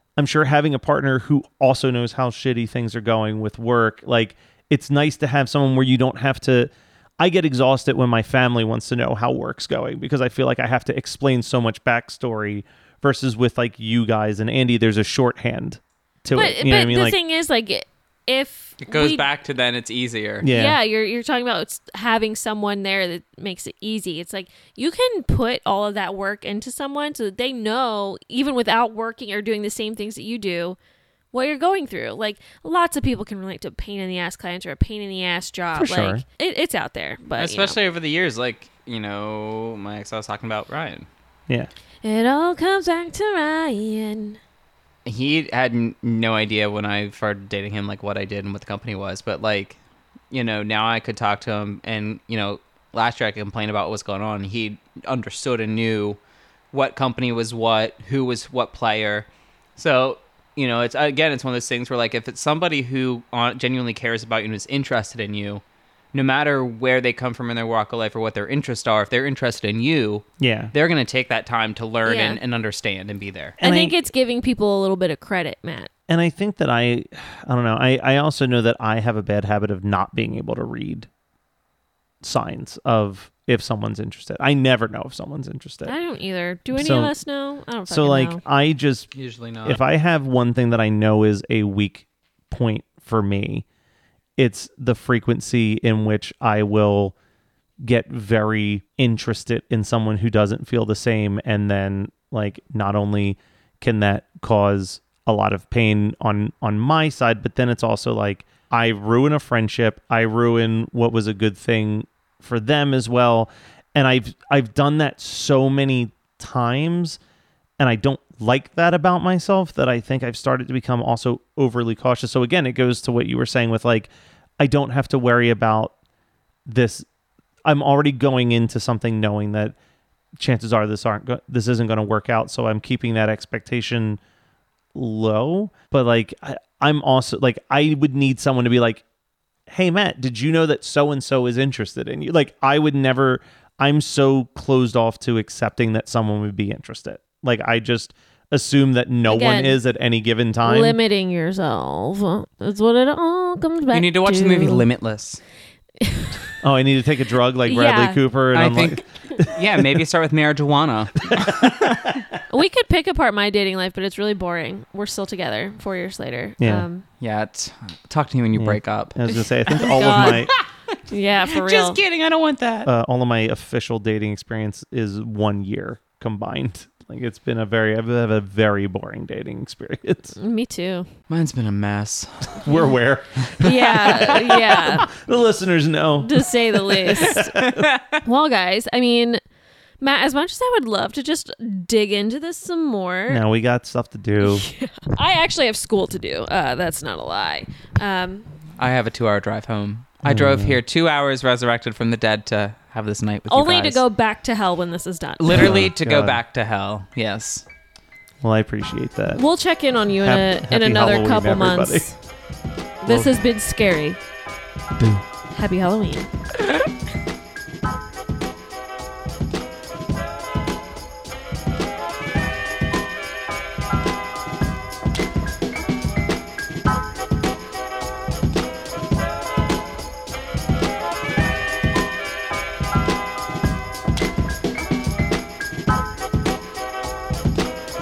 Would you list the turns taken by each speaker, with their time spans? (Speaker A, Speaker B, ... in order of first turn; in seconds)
Speaker A: 0.2-17.2, 20.4-20.8, 35.7-36.2, 70.4-70.7, 73.6-73.9, 76.1-81.1, 82.2-85.9, 86.7-87.2, 87.9-89.1, 89.6-93.6, 94.4-97.2, 97.8-117.2, 117.8-125.9, 126.7-127.0, 127.6-129.8, 130.4-134.2, 134.9-139.0, 139.7-151.0, 156.6-160.0, 161.2-162.3, 166.6-166.9, 168.6-170.5, 172.8-180.3, 182.6-187.9, 193.3-194.7, 200.2-200.8, 205.5-206.4, 208.4-209.4, 210.2-212.1, 213.1-213.3
Speaker B: 16.3-19.2, 20.5-30.8, 31.3-37.8, 42.0-44.4, 72.0-72.4, 73.6-75.9, 85.8-88.4, 149.2-149.8, 150.6-154.8, 156.0-156.5, 157.7-158.2, 162.5-167.0, 169.7-170.5, 171.1-172.0, 180.4-181.1, 183.6-185.1, 186.2-187.5, 188.2-189.4, 190.0-193.4, 194.4-198.5, 203.5-205.7, 209.3-212.2, 213.0-214.2, 215.5-216.3
Speaker C: 18.8-20.4, 37.4-41.1, 45.0-49.8, 50.3-56.2, 56.7-65.6, 66.1-73.5, 89.1-89.8, 153.9-155.4, 158.5-162.2, 167.2-172.9, 181.3-182.8, 187.2-188.2, 198.8-204.0, 205.4-207.6